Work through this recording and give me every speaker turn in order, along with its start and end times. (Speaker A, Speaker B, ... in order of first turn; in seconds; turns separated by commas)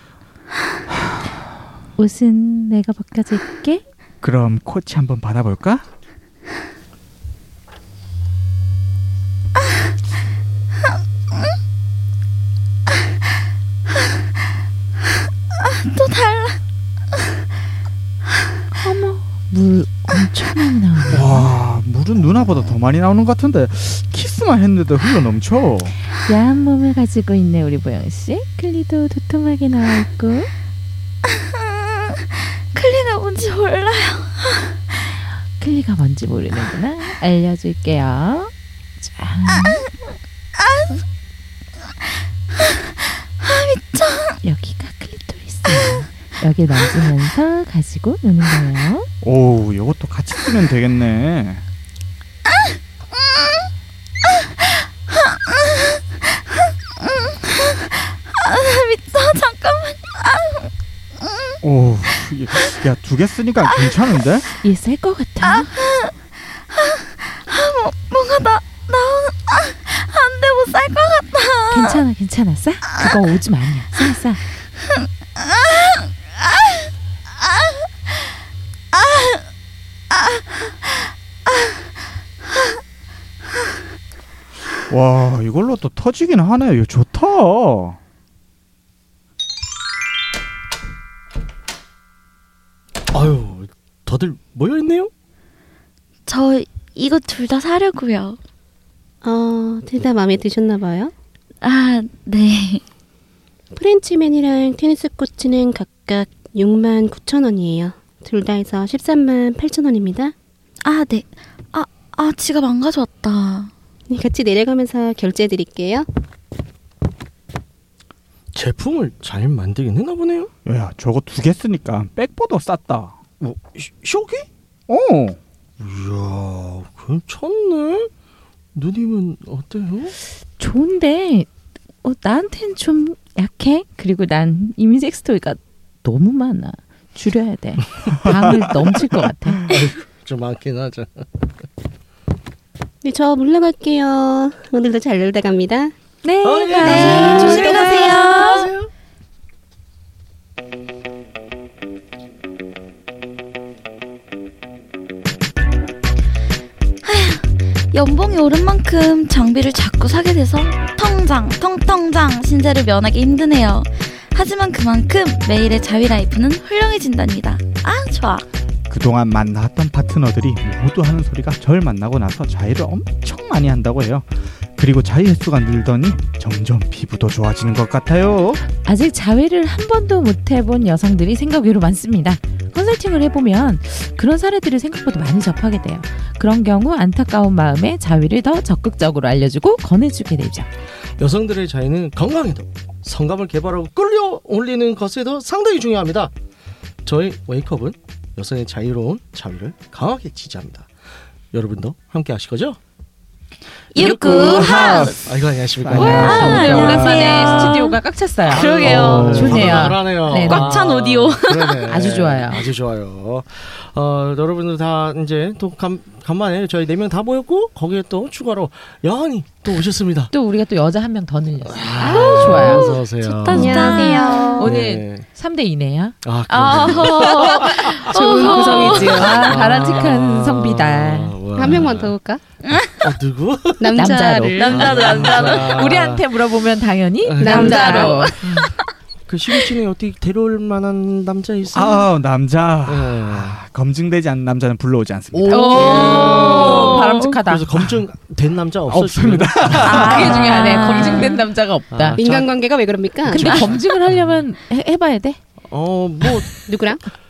Speaker A: 2.0-3.8, Speaker B: 4.2-5.8, Speaker C: 15.6-16.6, Speaker A: 18.7-21.5, Speaker B: 21.1-25.9, Speaker A: 26.3-30.5, Speaker C: 31.3-34.7, Speaker A: 35.6-39.9, Speaker C: 40.6-41.0, Speaker C: 42.6-44.4, Speaker A: 44.4-49.1, Speaker C: 45.7-46.0, Speaker B: 49.2-51.6, Speaker C: 54.4-56.4, Speaker C: 57.0-60.7, Speaker B: 61.6-64.5, Speaker A: 64.6-65.7, Speaker C: 65.4-72.0, Speaker A: 71.7-74.4, Speaker C: 74.9-76.7, Speaker C: 78.9-79.4, Speaker C: 80.1-80.4, Speaker B: 84.9-88.0, Speaker D: 93.1-95.1, Speaker C: 96.3-98.4, Speaker E: 99.2-101.1, Speaker C: 101.6-102.8, Speaker E: 103.7-110.3, Speaker C: 110.8-113.7, Speaker E: 114.1-116.1, Speaker D: 118.5-120.5, Speaker B: 120.7-123.6, Speaker D: 123.5-124.5, Speaker B: 124.9-125.4, Speaker D: 125.8-128.1, Speaker D: 128.7-130.1, Speaker A: 130.6-131.5, Speaker A: 132.0-139.6, Speaker D: 139.7-141.2, Speaker E: 143.0-145.9, Speaker A: 146.2-148.7, Speaker D: 146.4-148.9, Speaker C: 146.8-148.7, Speaker E: 146.8-148.0, Speaker C: 157.0-168.4, Speaker B: 168.9-178.6, Speaker A: 178.8-190.7, Speaker D: 191.2-196.3, Speaker D: 197.0-200.9, Speaker D: 201.5-202.8, Speaker C: 203.9-205.2, Speaker D: 203.9-207.1, Speaker B: 204.0-207.4, Speaker A: 205.9-210.8, Speaker C: 206.0-211.9, Speaker D: 208.5-220.3, Speaker B: 208.8-209.7, Speaker A: 211.8-212.7, Speaker A: 220.3-222.9, Speaker D: 221.6-225.3, Speaker C: 222.0-224.7, Speaker E: 223.4-224.7, Speaker A: 223.5-227.1, Speaker D: 226.2-228.2, Speaker C: 226.5-229.4, Speaker E: 228.1-229.5, Speaker A: 228.4-231.3, Speaker D: 228.7-232.1, Speaker E: 231.5-232.4, Speaker C: 232.6-233.1, Speaker D: 232.9-234.1, Speaker E: 233.8-235.1, Speaker A: 233.9-238.7, Speaker C: 234.6-235.9, Speaker D: 234.7-236.3, Speaker D: 237.2-238.3, Speaker E: 237.4-238.4, Speaker C: 237.4-238.7, Speaker D: 239.3-242.1, Speaker B: 241.7-245.6, Speaker D: 242.8-243.6, Speaker A: 245.3-247.7, Speaker C: 245.5-247.3, Speaker D: 245.7-250.4, Speaker E: 245.8-246.7, Speaker B: 248.9-250.5, Speaker A: 249.8-252.2, Speaker C: 249.9-251.4, Speaker D: 251.9-252.6, Speaker E: 252.2-253.7, Speaker A: 253.3-255.4, Speaker D: 253.3-254.2, Speaker D: 255.7-256.6, Speaker E: 256.7-257.0